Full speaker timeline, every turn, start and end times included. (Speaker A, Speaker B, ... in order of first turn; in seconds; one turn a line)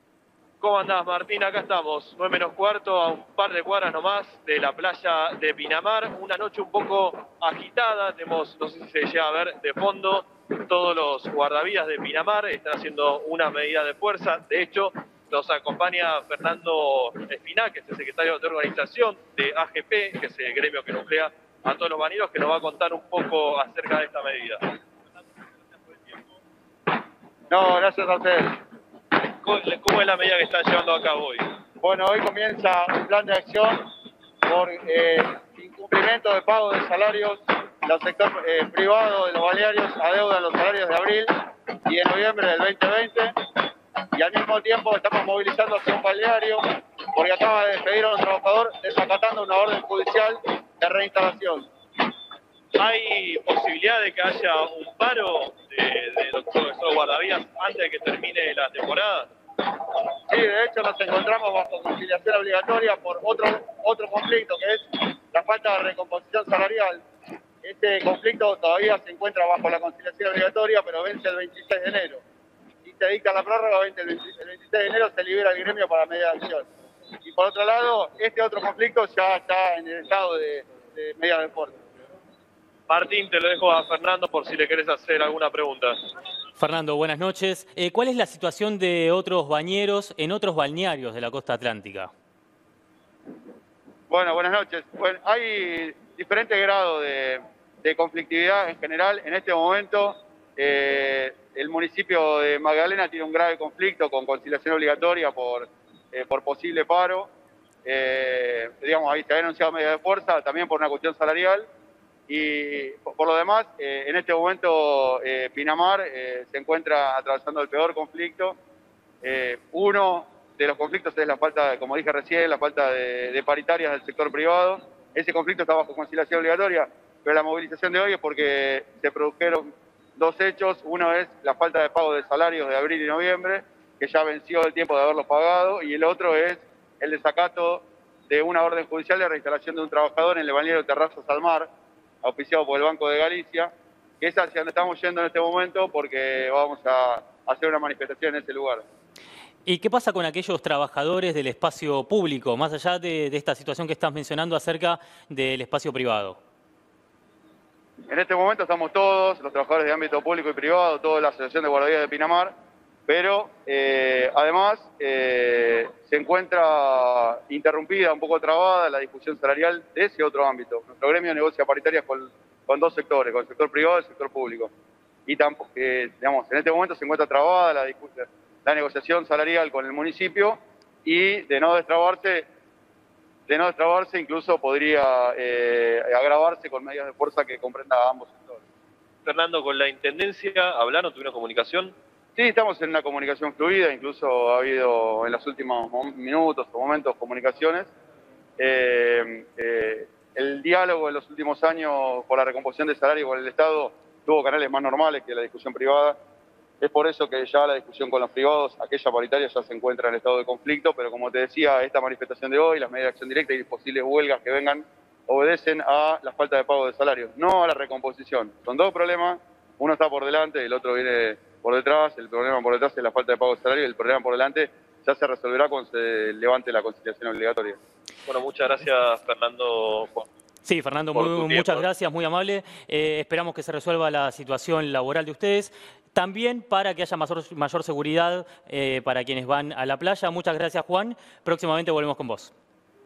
Speaker A: 0.6-24.8
Speaker A: 25.8-26.3
Speaker B: 27.5-28.6
Speaker A: 29.2-31.5
Speaker B: 31.8-33.9
Speaker B: 34.5-43.3
Speaker B: 44.1-51.7
Speaker A: 52.8-59.3
Speaker B: 60.3-67.0
Speaker B: 67.6-72.2
Speaker B: 72.8-76.7
Speaker B: 77.2-81.8
Speaker A: 82.9-86.0
Speaker C: 86.6-92.1
Speaker B: 94.1-107.3
Speaker B: 107.8-111.7
Speaker B: 112.3-118.6
Speaker B: 119.2-141.7
Speaker B: 142.2-148.8
Speaker C: 149.7-156.4
Speaker B: 158.1-162.5
Speaker B: 163.1-174.7
Speaker B: 175.3-182.5
Speaker B: 183.5-188.6
Speaker A: 189.2-191.9
Speaker B: 192.4-197.9
Speaker B: 198.6-206.2
Speaker B: 206.8-227.8
Speaker A: 228.3-230.3
Speaker C: 230.7-242.5
Speaker A: 231.2-231.8